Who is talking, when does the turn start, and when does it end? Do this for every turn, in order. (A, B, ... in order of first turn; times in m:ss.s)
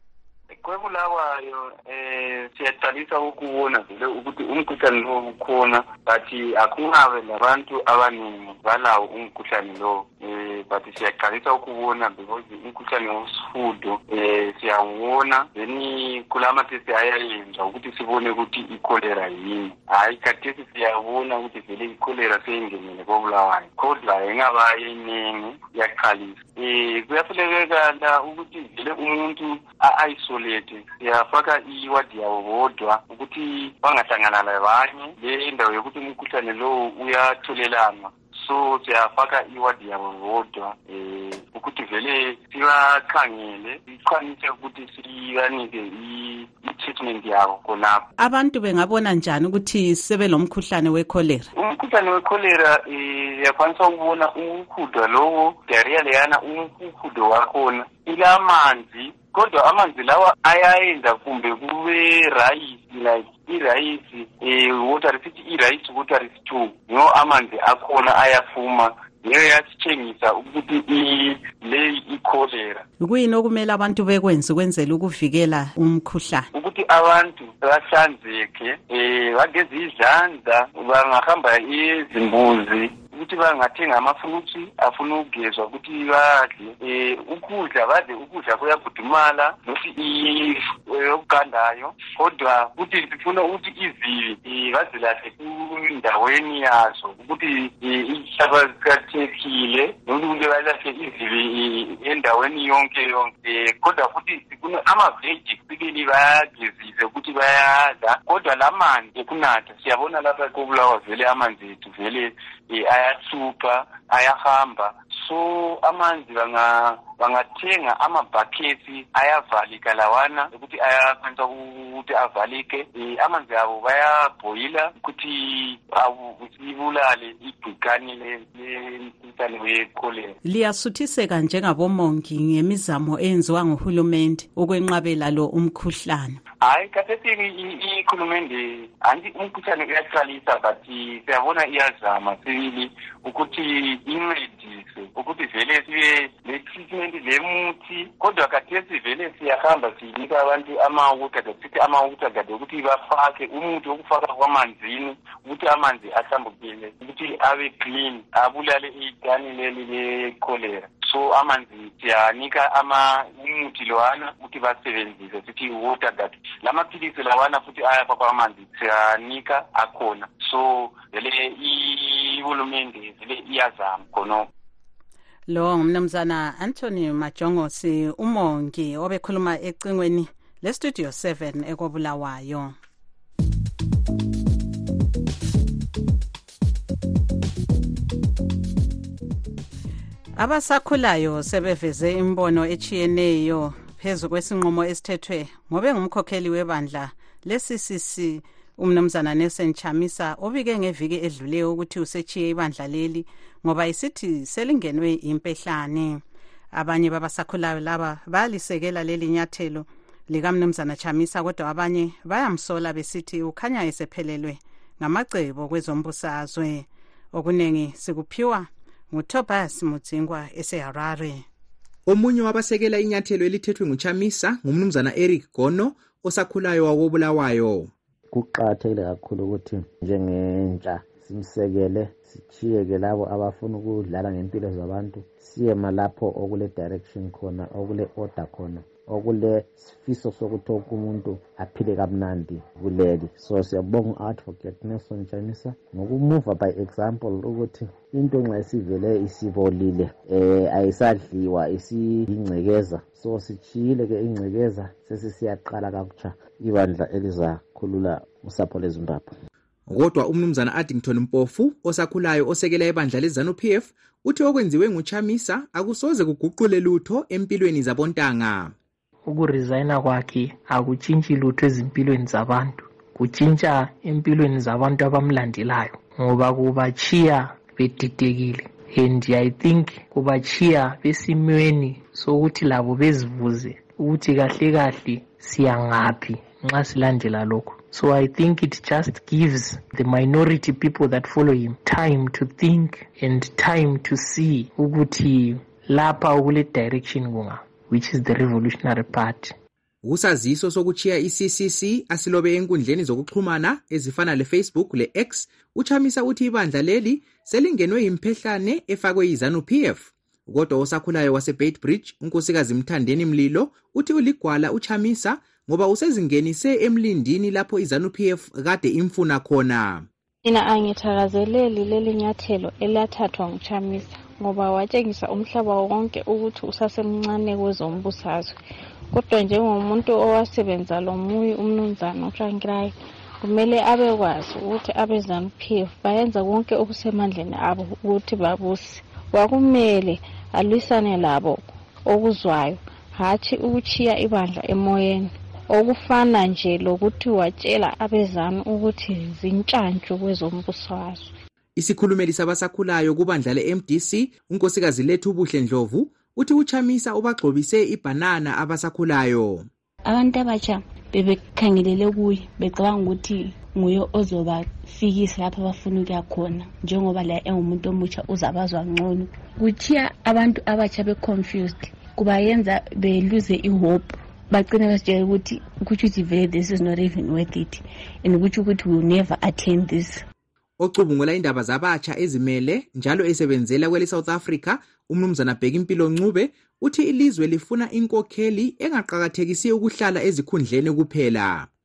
0:00.6-0:48.0 A
0:48.2-0:51.5 B
0:51.6-1:12.8 A
1:13.0-1:16.5 B
1:16.5-2:10.4 A
2:10.4-2:16.4 B
2:16.6-2:54.5 A
2:55.5-3:02.8 B
3:10.4-3:26.2 B
3:26.7-3:41.4 B
3:42.1-3:47.9 C
3:48.3-4:19.4 D
4:19.9-4:28.7 C
4:29.2-4:59.6 E
5:00.0-5:20.1 C
5:20.4-5:28.6 F
5:29.1-5:51.3 F
5:51.8-5:59.7 C
6:00.0-6:20.2 G
6:20.8-6:31.7 C